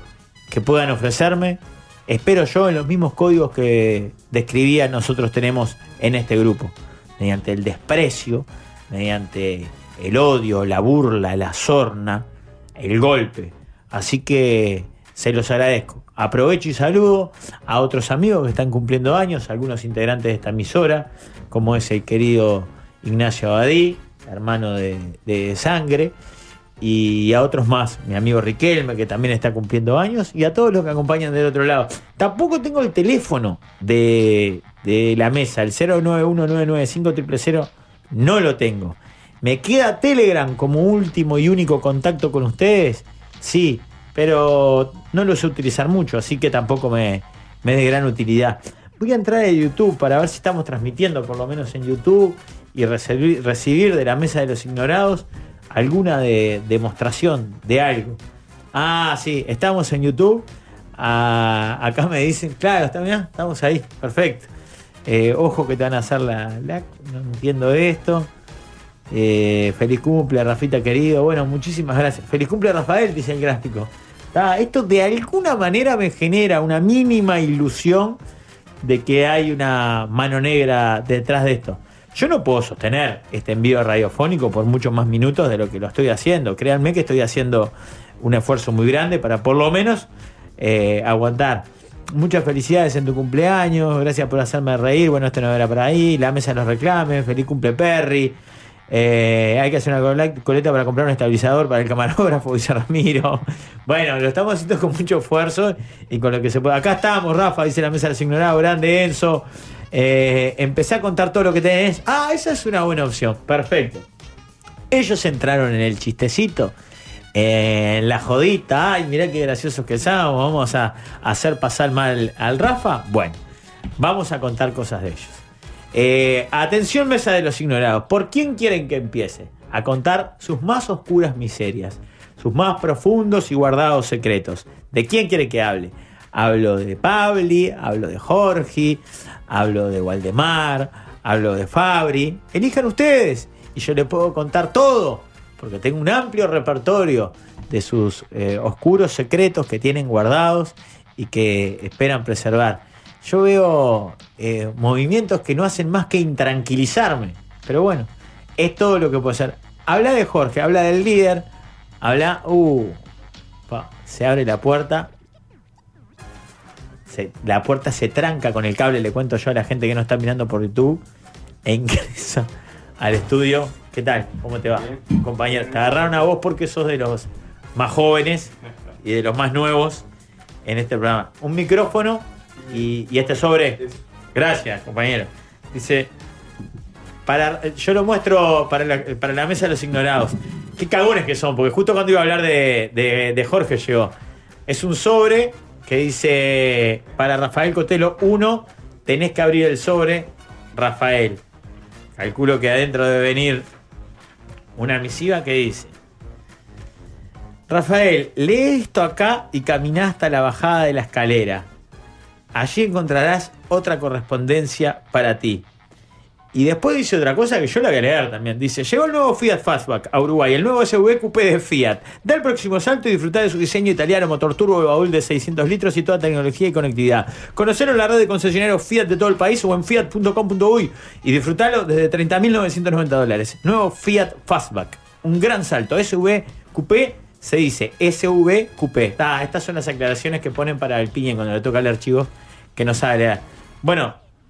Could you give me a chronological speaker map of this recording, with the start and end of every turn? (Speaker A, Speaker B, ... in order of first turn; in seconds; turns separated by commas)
Speaker A: 0.5-26.1, Speaker A: 26.8-58.2, Speaker A: 58.7-64.5, Speaker A: 65.0-68.3, Speaker A: 69.1-78.2, Speaker A: 78.8-98.4, Speaker A: 98.9-114.1, Speaker A: 114.9-116.7, Speaker A: 117.3-123.4, Speaker A: 124.0-161.5, Speaker A: 162.0-163.0, Speaker A: 163.7-165.1, Speaker A: 167.1-171.0, Speaker A: 171.6-180.0, Speaker A: 180.6-183.8, Speaker A: 184.3-186.1, Speaker A: 187.2-194.1, Speaker A: 194.7-201.4, Speaker A: 202.2-203.7, Speaker A: 204.8-205.9, Speaker A: 207.7-211.7, Speaker A: 212.5-215.7, Speaker A: 216.5-244.2